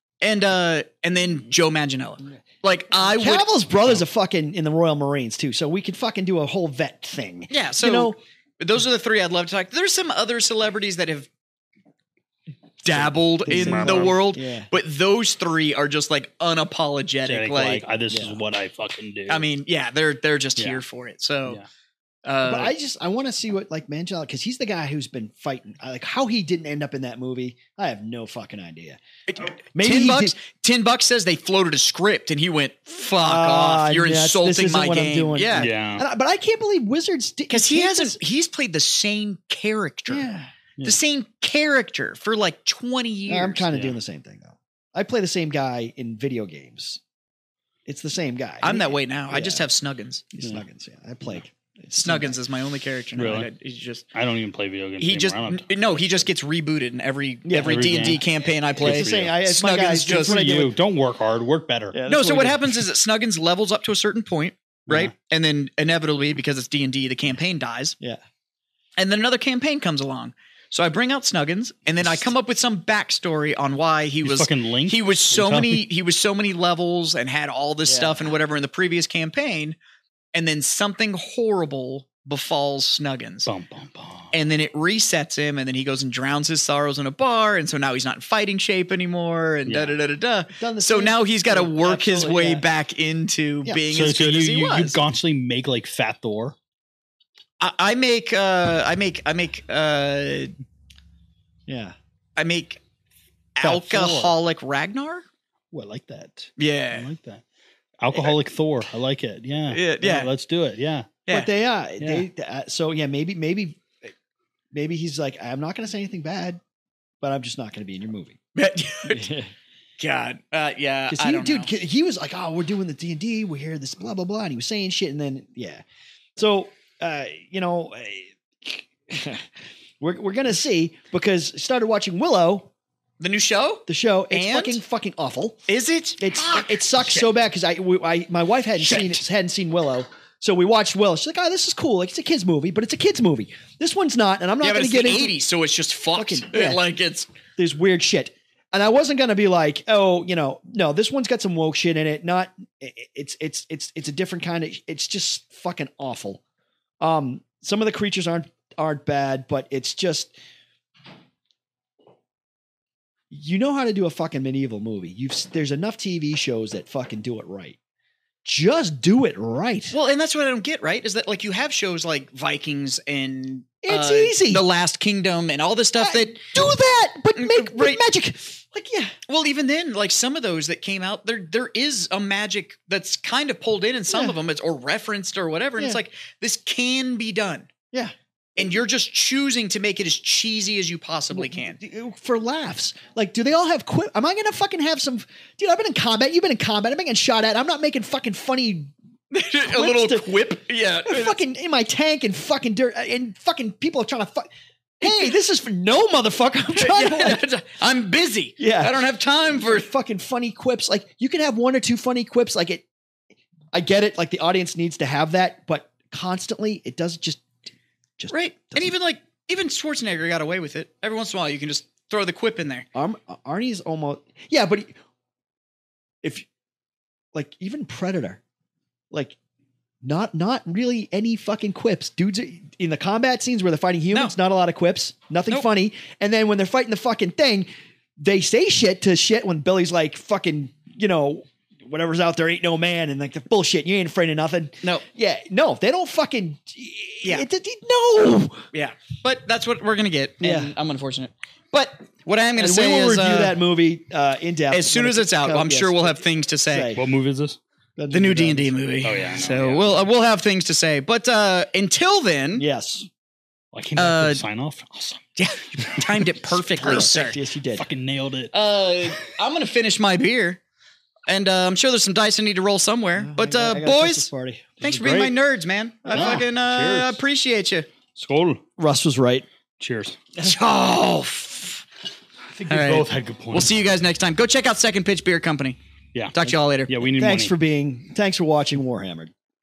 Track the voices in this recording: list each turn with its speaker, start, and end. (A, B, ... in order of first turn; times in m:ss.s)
0:00.2-0:03.5 A
0:03.2-0:08.2 B
0:07.5-0:11.3 A
0:12.8-0:17.8 A
0:13.4-0:14.7 B
0:13.5-0:14.2 C
0:17.2-0:19.5 C
0:18.1-0:18.4 B
0:19.3-0:21.6 A
0:22.2-0:22.7 A
0:22.4-0:29.0 B
0:29.3-0:35.7 A
0:29.7-0:30.3 B
0:33.2-0:38.2 B
0:35.6-0:36.0 C
0:37.5-0:40.3 A
0:40.1-0:40.5 B
0:40.8-0:43.6 A
0:43.3-0:47.0 B
0:43.7-0:44.0 C
0:47.8-0:49.6 B
0:48.6-0:50.2 A
0:50.3-0:52.4 B
0:51.9-0:54.1 A
0:53.2-0:53.5 C
0:54.1-0:56.3 C
0:55.0-1:00.4 A
0:57.4-1:00.7 B
0:57.6-0:58.2 C
0:58.8-0:59.4 C
1:00.1-1:02.0 C
1:01.9-1:02.7 B
1:02.1-1:08.0 A
1:09.0-1:19.8 A
1:14.2-1:15.8 C
1:17.8-1:18.4 B
1:20.3-1:23.5 A
1:23.5-1:24.3 C
1:24.3-1:35.0 A
1:29.6-1:30.0 C
1:30.6-1:32.6 B
1:33.9-1:36.6 C
1:37.6-1:40.5 A
1:41.7-1:41.9 B
1:42.4-1:42.8 A
1:43.6-1:45.2 A
1:43.6-1:44.3 C
1:45.7-1:47.4 C
1:46.6-1:47.1 A
1:48.0-1:51.2 C
1:49.7-1:50.3 A
1:51.3-1:54.1 B
1:52.0-1:52.2 C
1:54.7-1:56.6 B
1:57.2-1:58.4 B
1:58.5-1:59.3 A
1:59.1-1:59.5 B
2:00.0-2:01.7 A
2:01.1-2:05.8 B
2:06.4-2:09.5 B
2:10.0-2:12.7 B
2:13.2-2:14.8 A
2:13.9-2:15.6 B
2:15.7-2:17.2 A
2:16.2-2:25.3 B
2:18.8-2:19.2 A
2:24.6-2:27.3 A
2:26.1-2:26.8 B
2:27.6-2:36.4 B
2:37.0-2:40.3 B
2:43.3-2:47.8 B
2:48.4-2:49.9 B
2:49.9-2:56.4 A
2:53.8-2:54.6 B
2:56.0-2:59.1 B
2:57.4-2:58.0 A
2:59.3-3:07.7 A
3:04.1-3:04.4 B
3:07.9-3:08.7 B
3:08.6-3:11.8 A
3:11.3-3:18.9 B
3:19.3-3:21.4 A
3:19.5-3:20.3 B
3:21.1-3:24.5 B
3:25.0-3:27.4 B
3:25.0-3:25.3 A
3:26.7-3:29.9 A
3:28.6-3:32.8 B
3:33.7-3:37.4 B
3:38.2-3:38.9 B
3:38.3-3:42.8 A
3:42.9-3:44.9 B
3:47.3-3:48.4 B
3:49.1-3:49.4 B
3:50.0-4:08.6 B
4:08.7-4:13.5 A
4:10.4-4:10.7 B
4:12.6-4:17.0 B
4:14.7-4:17.0 A
4:17.0-4:17.6 C
4:18.0-4:18.7 B
4:18.1-4:22.6 A
4:19.0-4:20.1 C
4:22.6-4:23.1 B
4:23.7-4:26.0 C
4:24.0-4:24.4 A
4:25.4-4:27.4 A
4:26.8-4:27.9 B
4:27.7-4:28.5 C
4:28.5-4:30.6 A
4:31.3-4:34.3 A
4:33.2-4:34.8 B
4:34.8-4:37.9 A
4:34.8-4:35.3 C
4:36.0-4:36.4 B
4:36.1-4:37.2 C
4:38.1-4:38.6 C
4:38.8-4:39.5 B
4:39.8-4:40.2 C
4:40.4-4:41.8 A
4:42.5-4:43.7 C
4:42.7-4:45.8 A
4:46.3-4:46.9 A
4:46.9-4:47.5 C
4:47.1-4:49.3 B